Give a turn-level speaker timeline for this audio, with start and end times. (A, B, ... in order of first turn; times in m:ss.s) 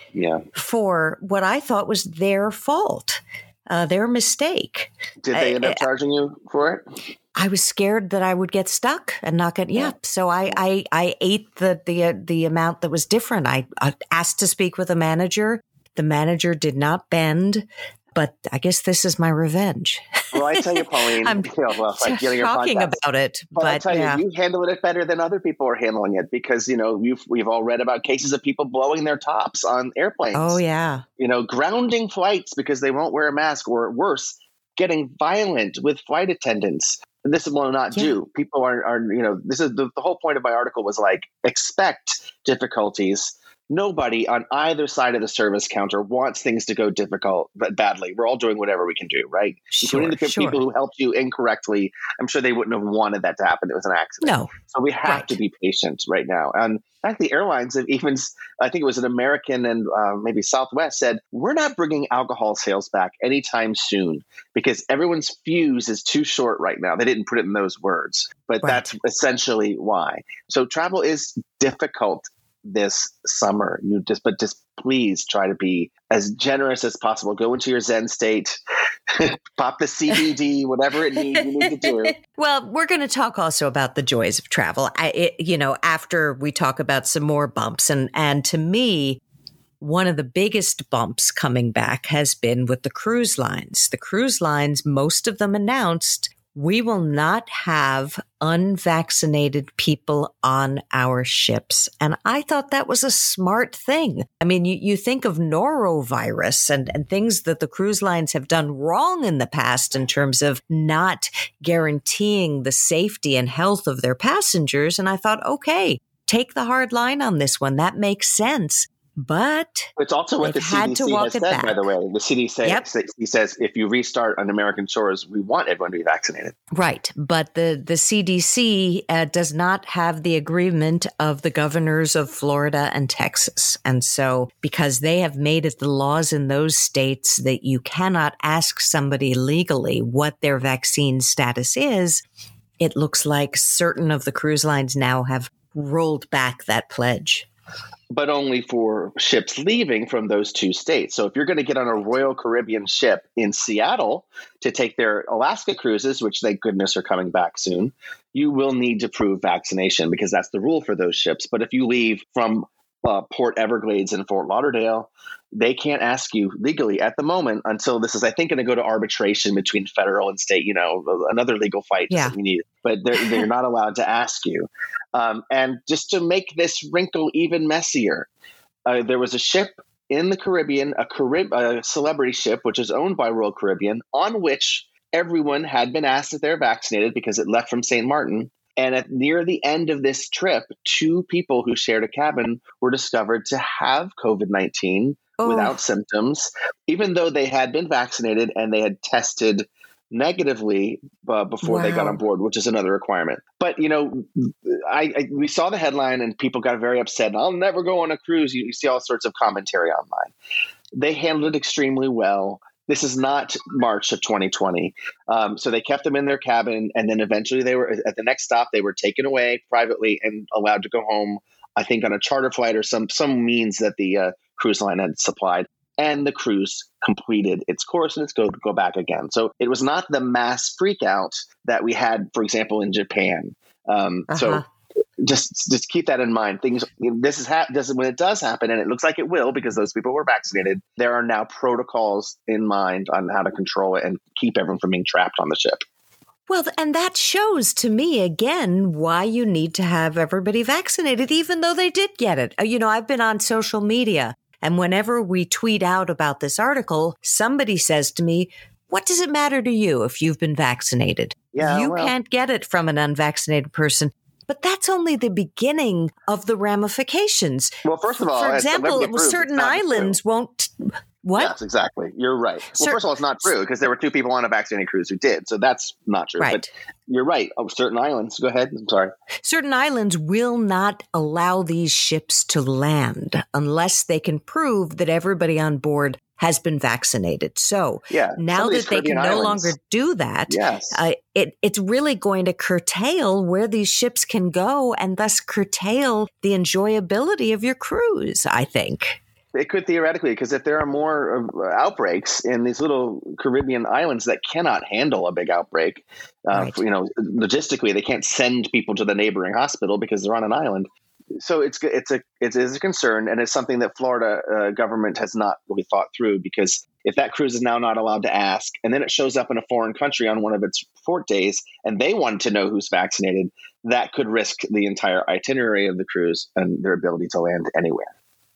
0:00.1-0:00.4 A
0:00.5-0:05.8 B
0:05.2-0:06.8 A
0:07.3-0:24.2 B
0:20.3-0:23.0 A
0:23.6-0:30.6 A
0:30.3-0:31.0 B
0:31.2-1:18.6 A
0:49.7-0:50.6 B
0:54.2-0:55.4 B
1:08.6-1:08.9 B
1:19.1-1:22.1 A
1:21.9-1:29.2 B
1:29.8-2:01.8 B
2:00.0-2:06.6 A
2:06.7-2:22.2 B
2:22.8-2:27.5 B
2:28.1-2:58.3 A
2:52.1-2:52.3 B
2:58.8-3:30.3 A
3:15.4-3:15.8 B
3:21.6-3:22.2 B
3:30.9-3:54.6 A
3:54.3-3:54.6 B
3:55.2-4:05.8 A
4:06.5-4:31.5 B
4:21.5-4:22.1 A
4:27.8-4:30.2 A
4:31.4-4:39.1 A
4:32.7-4:33.5 B
4:36.4-4:36.7 B
4:39.4-4:59.2 B
4:48.1-4:49.7 A
4:50.5-4:51.0 A
4:59.5-5:28.1 A
5:06.5-5:06.8 B